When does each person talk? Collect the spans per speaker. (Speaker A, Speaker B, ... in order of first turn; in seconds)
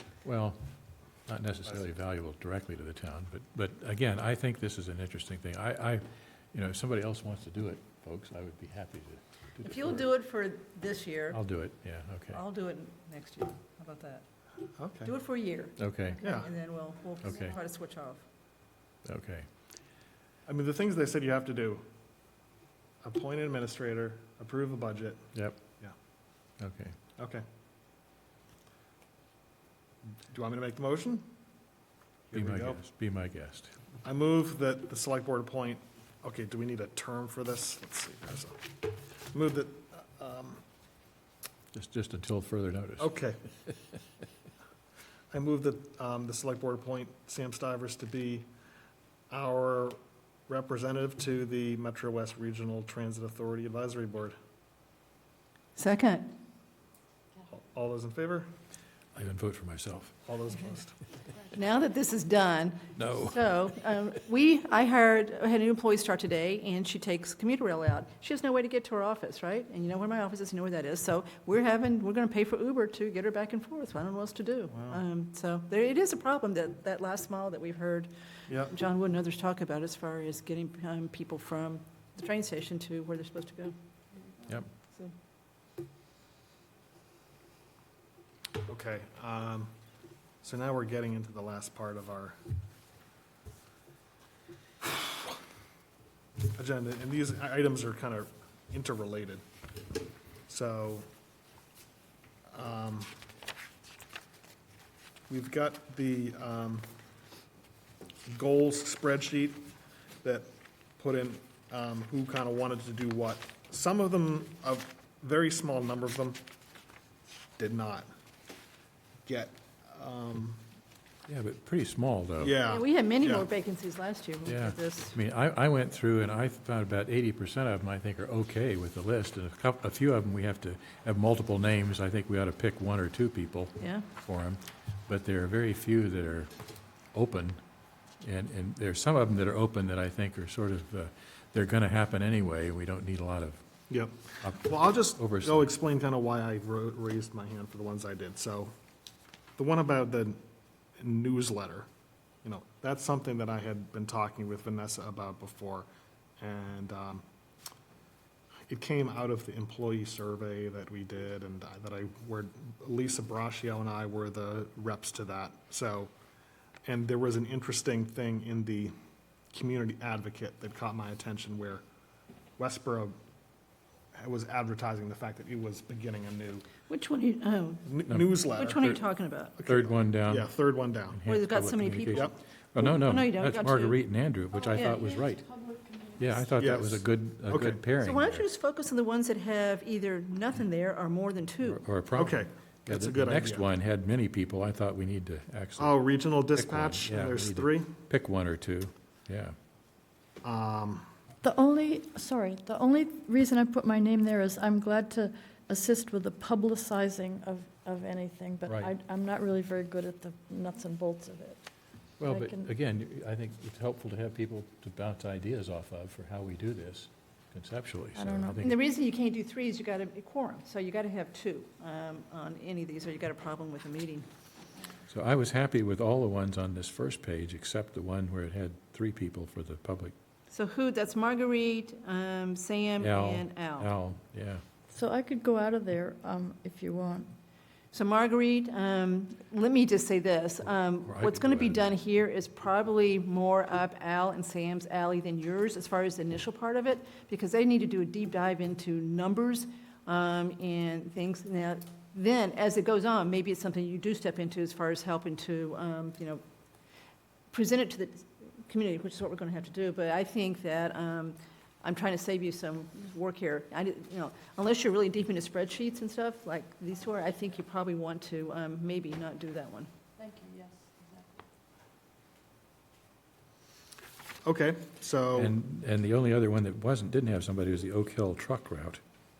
Speaker A: 0.2-0.6, 1.3-10.0, 11.3-12.4, 15.8-16.2, 17.2-17.6, 19.1-19.5, 26.6-27.0, 32.3-33.7, 41.7-43.1, 59.1-60.2, 63.0-63.5, 121.3-122.6, 124.5-136.5, 137.1-137.6, 138.2-143.6, 144.4-145.7, 178.1-178.4, 179.6-180.5, 181.1-185.5, 186.2-188.4, 191.6-196.0, 196.5-199.6, 212.2-218.8, 225.1-230.2, 233.0-234.6, 241.1-241.9, 275.4-279.0
Speaker B: 9.6-11.4, 12.3-14.2, 15.1-18.2, 55.8-56.3, 61.5-83.7, 122.7-125.2, 133.8-134.1, 176.9-177.9, 178.4-179.6, 181.3-184.0, 184.7-185.0, 188.0-191.8, 218.6-224.3, 230.5-233.9, 237.9-256.4, 257.5-269.9
Speaker C: 14.8-15.1, 16.2-16.5, 20.5-21.8, 23.0-25.2, 27.2-27.4, 30.3-31.3, 32.3-32.8, 34.0-40.6, 43.0-43.4, 45.3-48.5, 49.3-54.4, 57.5-58.5, 60.3-60.9, 88.7-89.7, 90.4-92.4, 96.5-99.4, 100.5-101.1, 102.5-103.1, 105.3-106.9, 108.3-109.7, 110.2-116.4, 117.6-118.1, 119.3-120.6, 122.4-123.5, 143.9-148.7, 149.6-150.4, 151.0-151.9, 152.4-155.9, 156.4-157.2, 158.7-166.1, 166.8-168.9, 169.5-171.8, 172.6-173.2, 174.1-176.7, 177.8-179.0, 179.6-181.3, 186.6-187.8, 192.1-193.7, 195.8-197.9, 200.4-201.1, 274.4-275.6
Speaker D: 184.6-186.4, 201.4-211.6, 212.2-212.7, 218.2-218.6, 234.9-237.3, 270.2-271.3